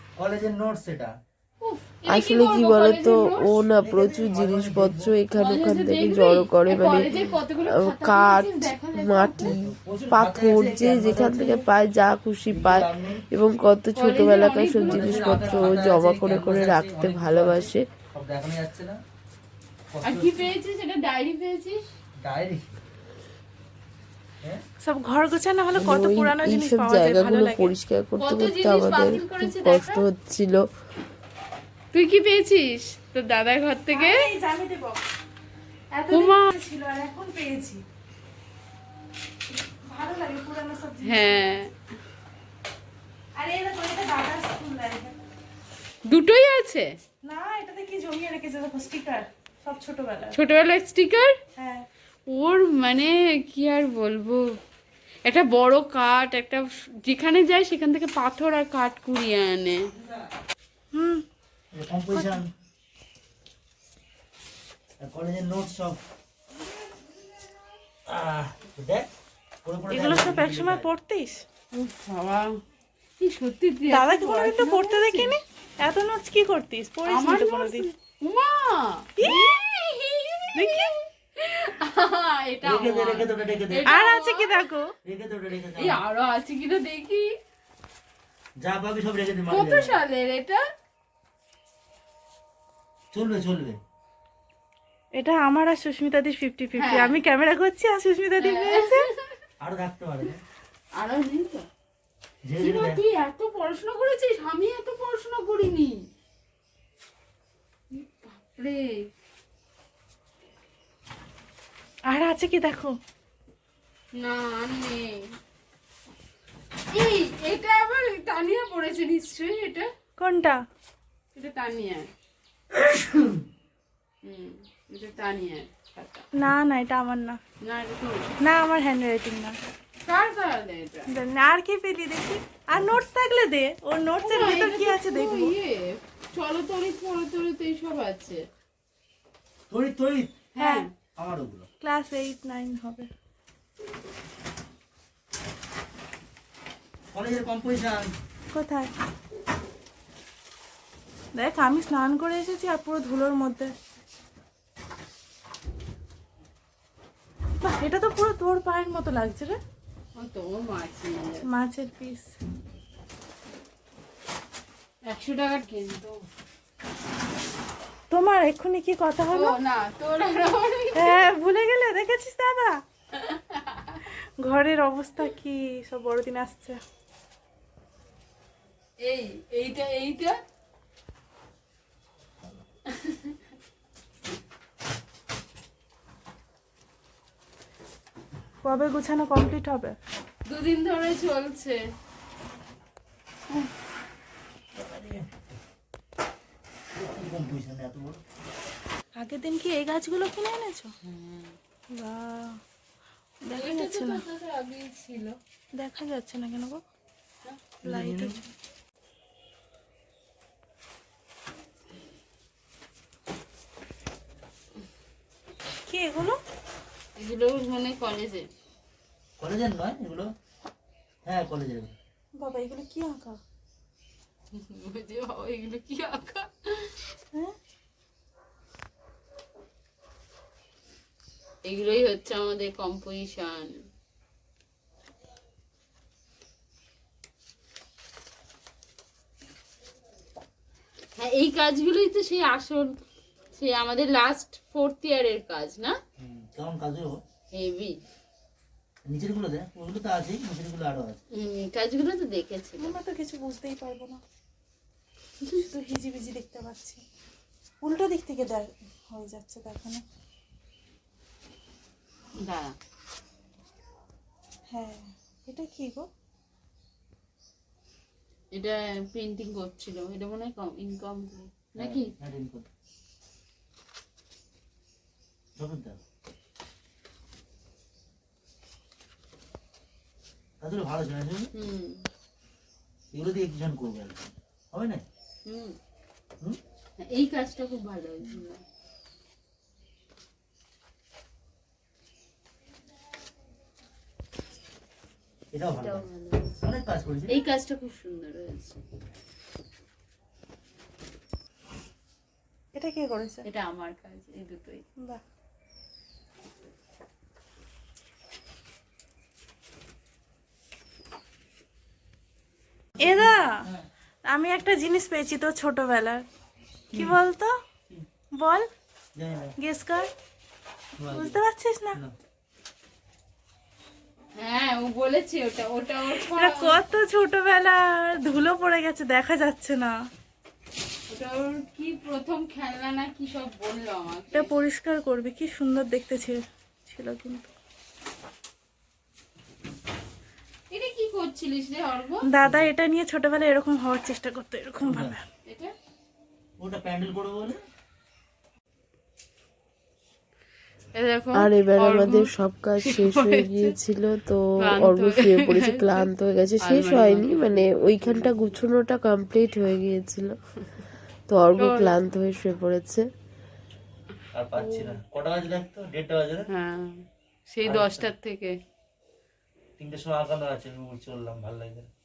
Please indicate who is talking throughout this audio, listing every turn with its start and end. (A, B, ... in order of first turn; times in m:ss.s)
0:00.2-0:01.1 A
0:01.6-0:03.6 B
0:02.1-0:17.8 C
0:03.8-0:05.2 A
0:05.3-0:09.6 B
0:09.4-0:11.6 A
0:12.5-0:13.2 A
0:14.0-0:15.8 B
0:14.8-0:19.0 A
0:19.9-0:20.5 A
0:20.0-0:21.8 B
0:22.2-0:22.7 A
0:24.8-0:27.7 D
0:25.7-0:30.6 C
0:28.2-0:30.0 B
0:31.9-0:34.2 B
0:33.9-0:35.0 D
0:36.0-0:37.8 D
0:36.1-0:36.5 B
0:39.9-0:41.7 D
0:41.0-0:41.7 B
0:43.4-0:45.1 D
0:46.1-0:46.9 B
0:47.2-0:50.4 D
0:50.3-0:51.3 B
0:51.6-0:51.8 D
0:52.3-0:54.4 B
0:55.2-0:59.8 B
1:00.9-1:01.2 D
1:01.7-1:02.5 A
1:02.1-1:02.4 D
1:05.0-1:06.0 A
1:08.1-1:09.1 A
1:09.6-1:10.9 A
1:09.9-1:11.4 D
1:11.7-1:12.6 B
1:13.2-1:15.4 B
1:13.9-1:17.9 D
1:17.0-1:24.6 B
1:19.2-1:19.5 D
1:20.5-1:20.9 D
1:22.6-1:23.9 A
1:23.8-1:24.9 D
1:25.0-1:26.0 A
1:25.8-1:27.2 B
1:28.6-1:29.9 A
1:29.5-1:30.6 B
1:33.1-1:33.8 A
1:35.2-1:39.1 D
1:36.7-1:37.2 B
1:38.4-1:39.2 B
1:39.6-1:40.4 A
1:40.9-1:41.6 B
1:42.4-1:43.0 A
1:42.6-1:45.9 B
1:47.9-1:48.9 B
1:52.1-1:52.9 D
1:54.1-1:55.2 B
1:56.9-1:59.9 B
2:00.2-2:00.6 D
2:01.3-2:02.0 B
2:04.2-2:06.2 B
2:06.3-2:07.4 D
2:07.6-2:08.3 B
2:08.4-2:09.6 D
2:10.0-2:11.1 B
2:11.1-2:15.5 D
2:14.2-2:18.4 B
2:19.7-2:20.4 A
2:20.5-2:20.9 B
2:20.6-2:20.8 D
2:21.2-2:21.7 A
2:21.8-2:23.1 D
2:27.1-2:28.1 A
2:28.5-2:28.9 D
2:31.3-2:33.7 D
2:37.6-2:39.6 D
2:40.2-2:41.5 B
2:41.4-2:42.4 D
2:45.0-2:46.2 B
2:48.1-2:49.6 D
2:49.3-2:51.3 B
2:50.9-2:52.8 D
2:53.1-2:54.0 B
2:54.4-2:56.8 D
2:59.0-3:00.3 B
3:02.9-3:03.3 B
3:08.6-3:09.9 D
3:10.4-3:11.8 B
3:14.7-3:15.3 A
3:17.0-3:18.2 A
3:19.2-3:20.9 D
3:21.0-3:21.6 B
3:21.9-3:22.6 D
3:23.4-3:24.2 D
3:23.5-3:25.4 B
3:25.7-3:26.8 D
3:27.4-3:27.7 B
3:27.8-3:28.4 D
3:27.8-3:28.4 A
3:35.8-3:36.4 D
3:37.2-3:38.5 B
3:39.4-3:40.3 A
3:41.2-3:41.9 A
3:42.4-3:43.4 D
3:44.5-3:46.9 B
3:51.6-3:53.8 B
4:01.2-4:03.0 B
4:03.5-4:05.9 B
4:06.2-4:07.2 A
4:07.5-4:07.9 B
4:09.0-4:11.2 A
4:11.3-4:12.9 B
4:12.8-4:14.2 D
4:15.4-4:17.0 D
4:17.8-4:20.0 D
4:22.4-4:22.8 B
4:24.7-4:26.1 D
4:28.5-4:32.1 B
4:31.8-4:32.7 A
4:35.6-4:36.0 A
4:40.6-4:41.5 A
4:41.5-4:42.0 B
4:43.1-4:45.0 A
4:45.4-4:45.8 B
4:47.0-4:48.6 B
4:55.5-4:56.0 A
4:55.7-4:56.5 B
4:56.6-4:57.4 A
4:57.3-4:58.8 B
5:02.7-5:03.4 D
5:03.4-5:04.8 B
5:13.0-5:13.6 D
5:13.0-5:13.8 A
5:14.3-5:16.2 D
5:16.9-5:17.5 D
5:16.9-5:17.2 A
5:18.4-5:18.7 D
5:19.2-5:19.5 A
5:19.6-5:20.1 D
5:21.0-5:21.4 A
5:21.1-5:22.0 D
5:24.4-5:26.8 B
5:26.2-5:29.9 D
5:31.1-5:34.5 B
5:34.3-5:37.5 D
5:40.7-5:42.2 B
5:42.2-5:45.2 D
5:42.4-5:42.7 A
5:44.8-5:45.2 A
5:45.4-5:45.7 B
5:46.6-5:47.6 A
5:50.9-5:53.7 B
5:51.3-6:00.4 C
5:54.6-5:56.1 B
5:56.6-5:58.3 B
6:01.3-6:03.0 C
6:01.6-6:02.0 B
6:04.3-6:06.5 A
6:04.6-6:05.0 B
6:06.5-6:08.5 B
6:07.6-6:08.1 A
6:09.8-6:11.9 A